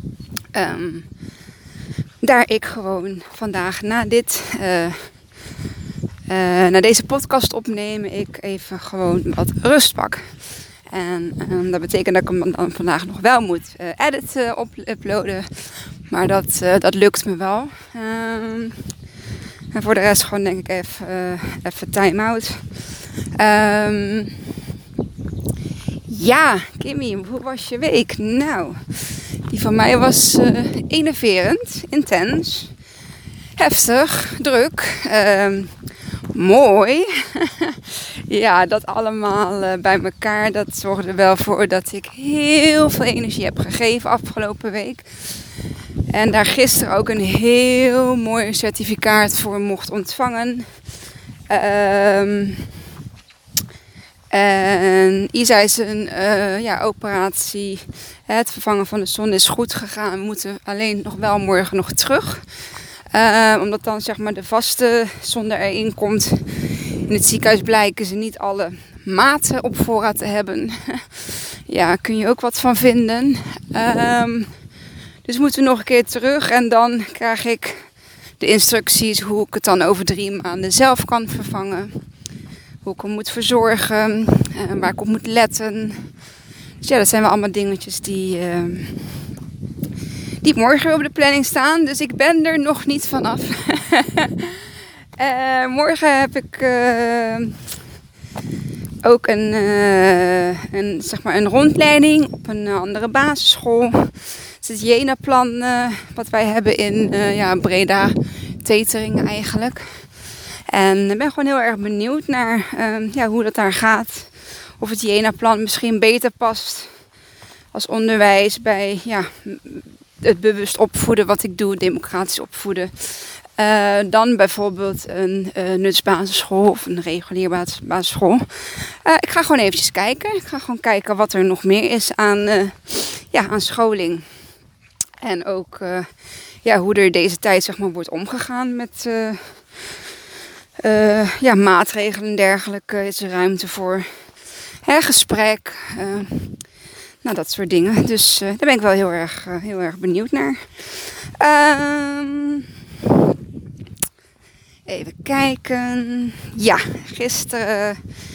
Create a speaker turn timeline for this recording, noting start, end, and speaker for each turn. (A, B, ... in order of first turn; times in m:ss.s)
0:00.5-0:01.1 A
0:02.2-0:05.1 A
0:06.3-0:10.2 A
0:10.9-0:18.8 A
0:19.7-0:22.6 A
0:23.4-0:24.4 A
0:26.1-0:32.7 A
0:33.6-0:35.7 A
0:36.3-0:45.1 A
0:46.1-0:50.7 A
0:51.5-0:52.7 A
0:54.3-1:02.4 A
1:03.1-1:14.5 A
1:15.2-1:17.8 A
1:18.4-1:21.9 A
1:22.8-1:26.1 A
1:26.8-1:29.2 A
1:30.4-1:34.6 A
1:35.2-1:37.6 A
1:39.0-1:49.9 A
1:50.7-1:56.9 A
1:57.7-2:14.2 A
2:15.2-2:16.1 A
2:16.6-2:19.6 A
2:20.8-2:24.0 A
2:24.8-2:26.6 A
2:27.2-2:33.2 A
2:34.8-2:38.0 A